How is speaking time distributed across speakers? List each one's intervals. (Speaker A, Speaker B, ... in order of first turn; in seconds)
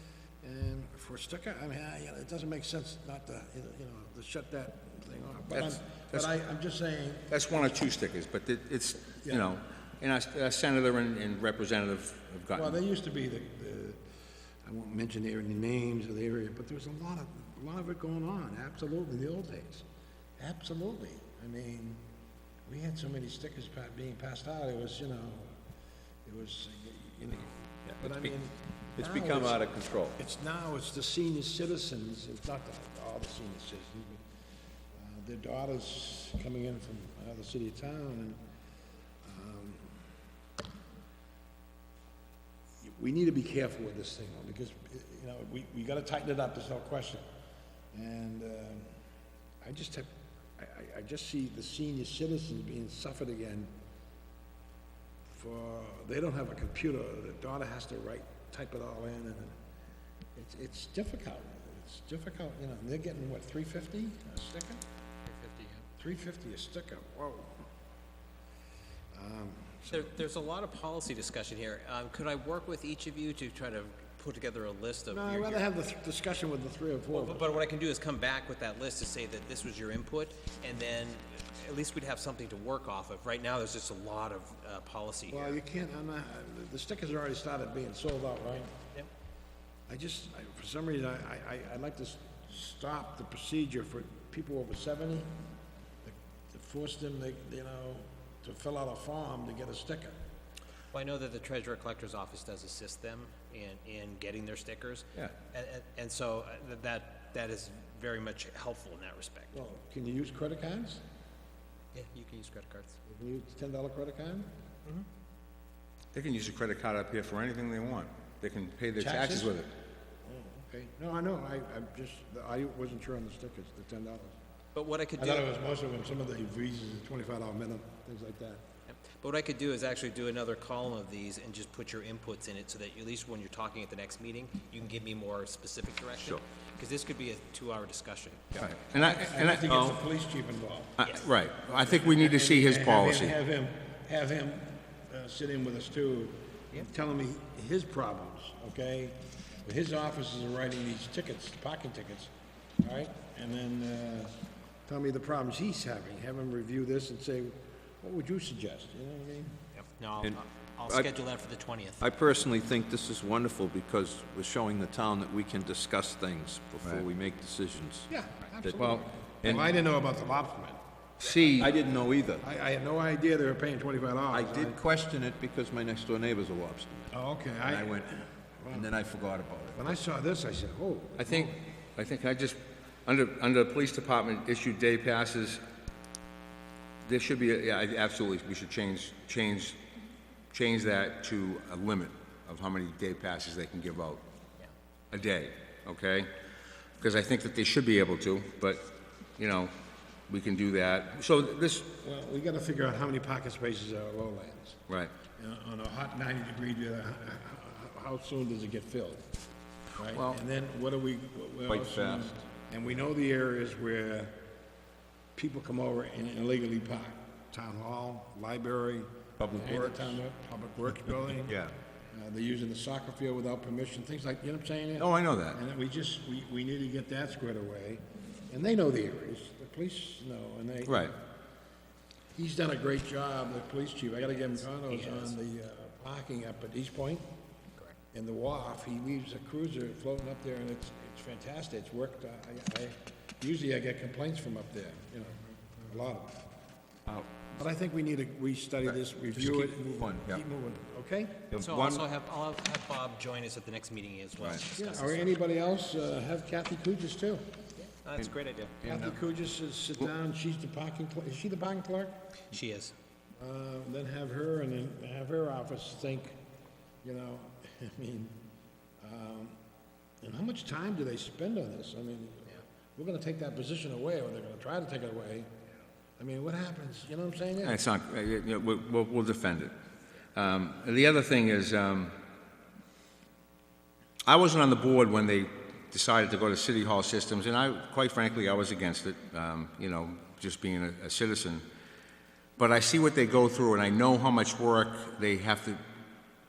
Speaker A: 0.4-7.7, 12.5-14.0, 14.6-19.8, 20.4-22.0, 22.6-25.6, 26.2-34.2, 34.9-38.4, 39.2-40.0, 42.8-47.2, 47.9-49.0, 49.6-53.7, 55.3-59.5, 60.4-64.8, 66.0-67.6, 69.1-70.1, 75.1-77.5, 85.3-88.7, 89.9-95.3, 96.0-100.2, 109.5-111.0, 113.0-114.5, 119.0-119.5, 120.2-124.4, 125.2-128.6, 138.9-141.0, 141.8-154.3, 154.8-159.6, 168.1-170.8, 172.4-174.8, 177.1-178.9, 179.7-181.6, 202.0-204.8, 205.3-209.2, 209.9-214.3, 215.3-221.6, 222.1-231.2, 232.3-237.2, 238.1-246.4, 247.5-251.5, 254.8-257.5, 258.8-262.2, 263.4-266.4, 267.0-268.4, 269.0-269.6, 270.2-275.5, 276.2-277.8
Speaker B: 5.5-6.3, 7.3-12.8, 116.1-119.7, 138.6-139.7, 141.0-143.3, 168.7-169.6, 171.2-171.7, 181.2-185.6, 187.0-189.8, 190.5-194.2, 195.1-196.3, 197.0-199.7, 200.3-201.9, 210.1-210.4, 225.0-225.6, 230.8-231.1, 277.6-279.7, 280.3-282.2, 284.2-291.6, 292.6-295.8
Speaker C: 27.9-28.3, 28.9-30.2, 139.7-140.0, 162.0-168.1, 171.6-172.4, 174.3-177.1, 177.6-178.1, 178.7-179.9, 211.7-212.3, 219.4-220.2, 221.4-221.7, 248.9-250.4, 251.5-252.0, 258.8-259.2
Speaker D: 65.2-65.8, 69.9-75.6, 77.1-85.6, 100.9-109.6, 111.9-113.0, 124.7-125.5, 129.0-138.6, 159.8-162.0, 234.8-235.3, 251.5-255.3, 257.9-258.7, 262.5-262.9